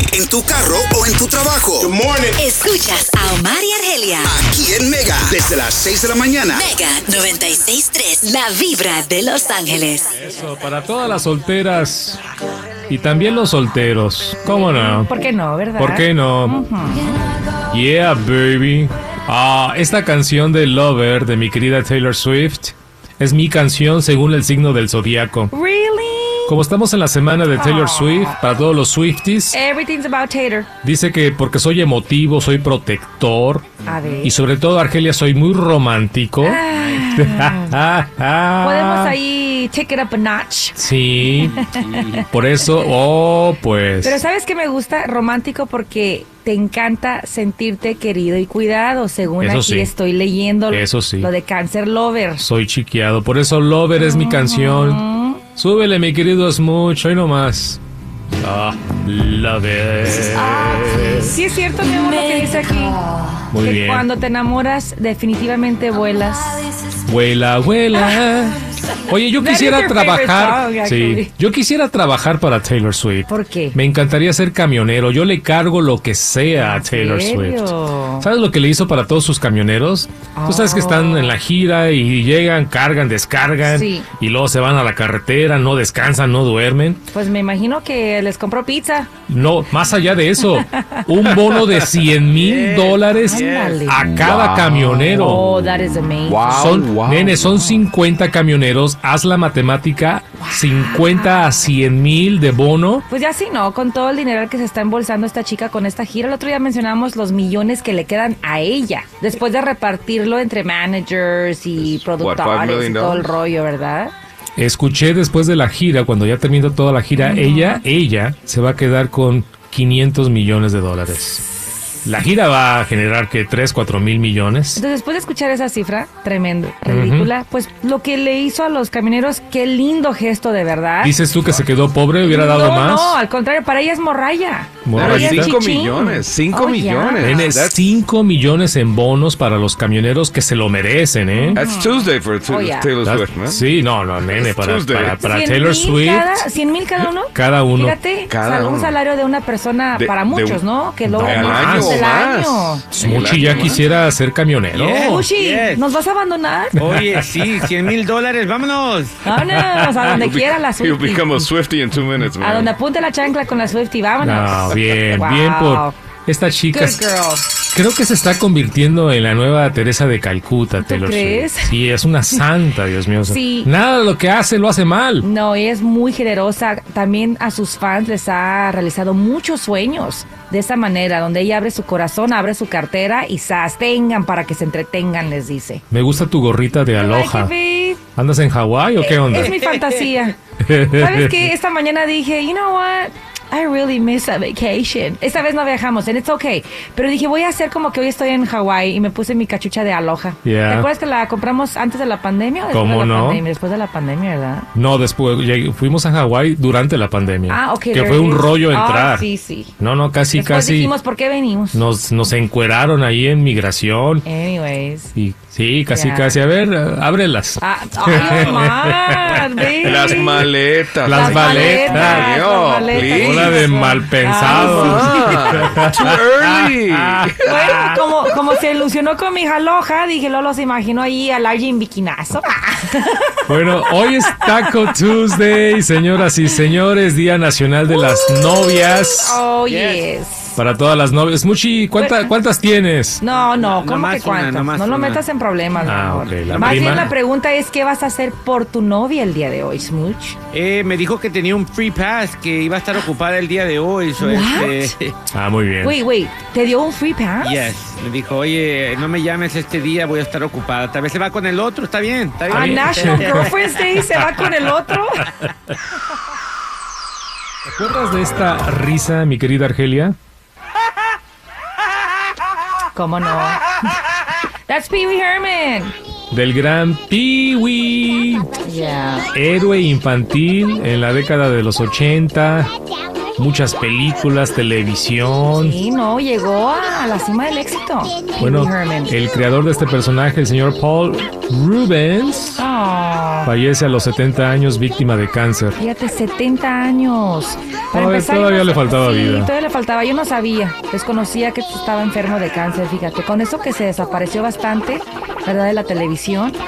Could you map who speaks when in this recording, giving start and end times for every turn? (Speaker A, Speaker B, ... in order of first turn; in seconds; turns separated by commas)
Speaker A: 0.2-2.1, Speaker B: 2.3-4.5, Speaker A: 4.4-6.6, Speaker B: 6.5-10.1, Speaker C: 10.2-12.2, Speaker C: 12.9-15.1, Speaker D: 14.4-17.2, Speaker C: 15.8-16.6, Speaker C: 17.7-25.5, Speaker D: 25.5-26.6, Speaker C: 26.5-29.6, Speaker D: 27.6-28.4, Speaker D: 29.5-30.7, Speaker C: 30.8-33.7, Speaker D: 33.8-34.4, Speaker C: 34.2-39.2, Speaker D: 36.4-37.8, Speaker D: 38.6-40.8, Speaker C: 40.8-41.6, Speaker D: 41.4-42.3, Speaker C: 42.3-44.2, Speaker D: 44.0-52.5, Speaker C: 49.4-49.9, Speaker C: 50.7-51.3, Speaker C: 52.4-57.8, Speaker D: 54.0-55.4, Speaker C: 58.4-61.4, Speaker D: 60.9-63.0, Speaker C: 63.5-64.1, Speaker D: 63.6-66.7, Speaker C: 67.0-87.0, Speaker D: 69.4-71.3, Speaker D: 73.3-73.8, Speaker D: 76.6-78.3, Speaker D: 80.3-81.4, Speaker D: 83.6-84.1, Speaker D: 87.1-89.1, Speaker C: 89.3-95.4, Speaker D: 90.4-91.1, Speaker E: 92.2-93.8, Speaker D: 93.2-94.0, Speaker F: 94.0-97.6, Speaker D: 95.1-96.8, Speaker C: 96.5-103.0, Speaker D: 97.5-97.8, Speaker D: 100.4-101.7, Speaker D: 103.1-114.1, Speaker F: 111.8-113.3, Speaker C: 114.6-121.4, Speaker D: 117.2-117.8, Speaker C: 122.0-124.8, Speaker D: 124.8-131.2, Speaker C: 126.8-127.3, Speaker C: 131.0-133.2, Speaker D: 132.2-137.5, Speaker C: 134.8-135.6, Speaker F: 134.9-137.8, Speaker C: 137.2-141.6, Speaker D: 141.3-142.9, Speaker F: 141.5-143.6, Speaker C: 143.0-146.5, Speaker F: 144.2-145.2, Speaker D: 145.2-153.7, Speaker C: 147.3-148.0, Speaker F: 148.3-149.0, Speaker F: 149.9-150.6, Speaker C: 151.1-152.0, Speaker F: 151.2-153.8, Speaker C: 152.9-155.3, Speaker E: 154.7-155.9, Speaker D: 154.9-156.8, Speaker C: 156.8-157.7, Speaker E: 156.8-159.2, Speaker D: 159.2-161.5, Speaker C: 159.3-160.2, Speaker F: 160.2-162.7, Speaker D: 162.4-165.9, Speaker C: 164.2-167.1, Speaker D: 166.7-167.5, Speaker C: 167.7-175.3, Speaker D: 170.8-171.7, Speaker D: 173.2-173.7, Speaker D: 175.2-185.8, Speaker C: 185.9-187.5, Speaker D: 186.9-188.0, Speaker C: 188.2-189.6, Speaker D: 189.1-190.4, Speaker C: 190.6-191.4, Speaker D: 190.9-204.7, Speaker C: 200.4-200.9, Speaker C: 202.7-203.4, Speaker C: 204.8-209.3, Speaker D: 207.5-209.7, Speaker C: 209.8-210.9, Speaker D: 210.3-211.8, Speaker C: 211.7-214.3, Speaker D: 214.2-215.1, Speaker C: 215.2-219.7, Speaker D: 215.9-216.4, Speaker D: 217.6-220.5, Speaker F: 219.8-223.6, Speaker C: 221.0-222.4, Speaker D: 221.1-225.7, Speaker C: 222.9-228.1, Speaker F: 224.4-227.6, Speaker D: 227.5-234.9, Speaker C: 233.5-239.4, Speaker D: 239.0-240.6, Speaker E: 239.7-240.1, Speaker C: 240.6-243.2, Speaker D: 242.0-242.3, Speaker D: 243.2-250.4, Speaker E: 243.5-245.2, Speaker C: 245.8-247.1, Speaker E: 246.5-247.1, Speaker E: 250.5-255.1, Speaker D: 254.2-254.9, Speaker C: 255.3-256.0, Speaker D: 255.8-257.7, Speaker E: 257.4-263.7, Speaker C: 262.5-264.9, Speaker D: 262.5-265.3, Speaker C: 267.7-270.2, Speaker D: 272.9-273.6, Speaker D: 274.7-275.9, Speaker C: 276.3-278.5, Speaker D: 278.6-279.3, Speaker C: 279.3-282.7, Speaker C: 283.4-285.8, Speaker D: 285.5-289.1, Speaker C: 288.4-292.6, Speaker D: 292.6-293.5, Speaker C: 293.4-295.8, Speaker D: 295.8-306.6, Speaker C: 297.9-299.5